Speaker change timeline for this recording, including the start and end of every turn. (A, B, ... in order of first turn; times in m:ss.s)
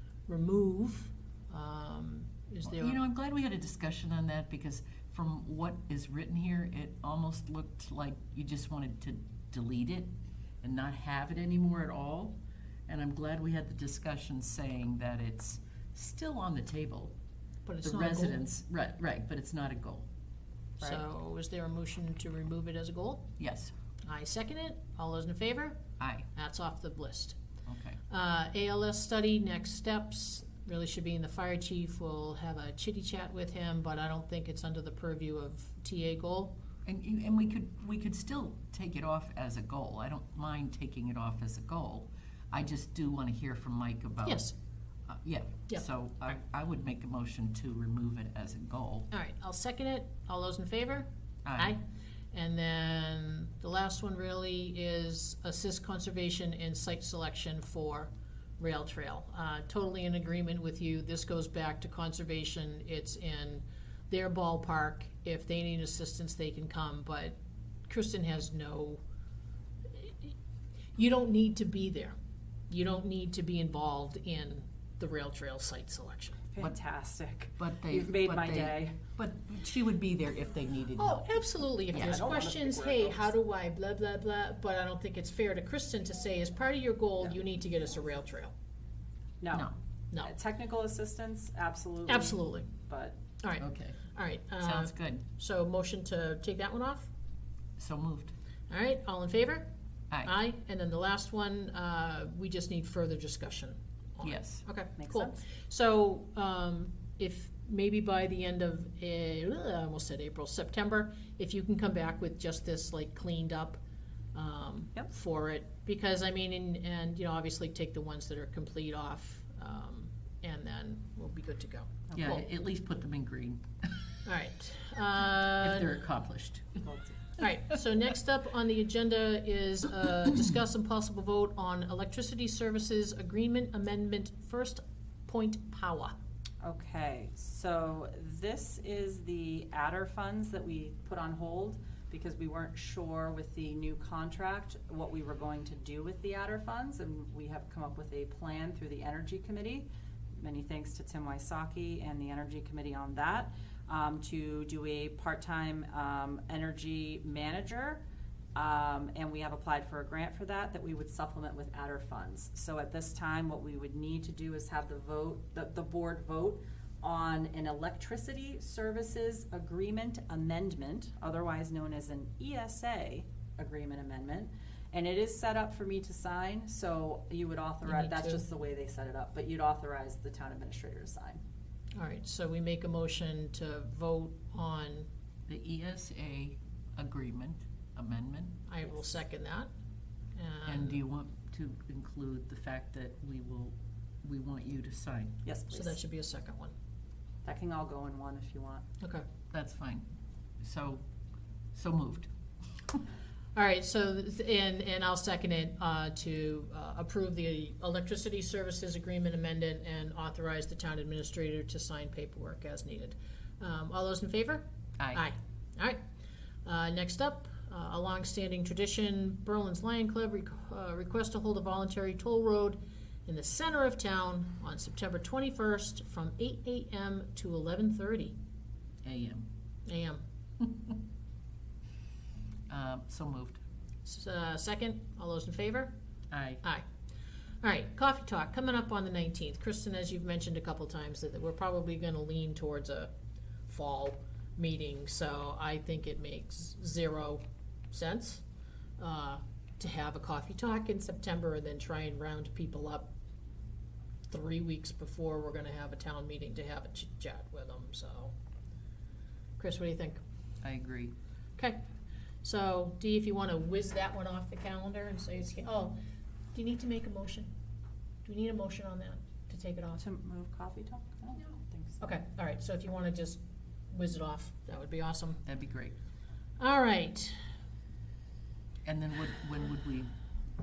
0:00.3-0:03.0 A
0:02.7-0:10.1 B
0:10.6-0:17.1 B
0:17.7-0:18.4 A
0:17.8-0:20.1 B
0:20.8-0:23.3 A
0:23.4-0:23.7 B
0:24.0-0:25.8 A
0:26.0-0:26.3 B
0:26.3-0:27.4 A
0:27.7-0:28.0 B
0:28.1-0:36.6 A
0:36.9-0:44.5 B
0:44.2-0:44.5 A
0:45.1-0:49.1 B
0:49.1-0:51.8 A
0:51.4-0:51.8 B
0:52.3-1:07.4 A
1:07.9-1:09.0 A
1:09.9-1:10.3 A
1:11.0-1:12.2 A
1:12.7-1:16.5 A
1:16.5-1:19.0 C
1:17.6-1:21.3 B
1:21.0-1:28.5 A
1:21.9-1:22.3 B
1:22.0-1:23.3 C
1:29.4-1:29.7 C
1:30.2-1:33.2 C
1:32.1-1:32.7 A
1:33.4-1:37.1 A
1:33.6-1:34.0 B
1:34.6-1:35.2 B
1:37.8-1:38.3 B
1:38.7-1:39.7 A
1:40.2-1:53.8 A
1:44.2-1:44.6 B
1:45.0-1:45.4 C
1:54.4-2:02.5 A
2:02.2-2:03.7 B
2:04.2-2:05.9 A
2:05.6-2:06.9 B
2:06.8-2:07.2 C
2:07.4-2:16.2 A
2:16.6-2:38.0 C
2:38.6-3:01.4 C
2:57.8-2:58.4 A
3:02.0-3:05.1 A
3:05.5-3:08.6 B
3:08.7-3:09.7 A
3:10.4-3:11.0 A
3:10.7-3:15.4 B
3:15.4-3:16.0 C
3:15.7-3:16.7 A
3:17.4-3:18.8 C
3:19.5-3:20.0 B
3:20.6-3:21.0 B
3:21.7-3:22.3 B
3:23.6-3:36.0 A
3:36.6-3:48.4 A
3:49.0-3:49.4 B
3:49.9-3:50.2 A
3:52.7-3:53.6 B
3:54.0-3:55.9 A
3:56.3-3:56.6 B
3:57.6-4:03.1 A
4:03.7-4:08.4 A
4:09.0-4:13.1 A
4:14.3-4:18.3 A
4:19.6-4:20.2 A
4:20.6-4:21.2 B
4:21.6-4:21.8 A
4:22.4-4:26.0 A
4:26.5-4:27.5 A
4:28.2-4:30.0 A
4:30.0-4:32.1 C
4:32.0-4:33.4 A
4:33.9-4:35.4 A
4:35.5-4:36.0 B
4:36.6-4:37.4 A
4:38.8-4:40.1 B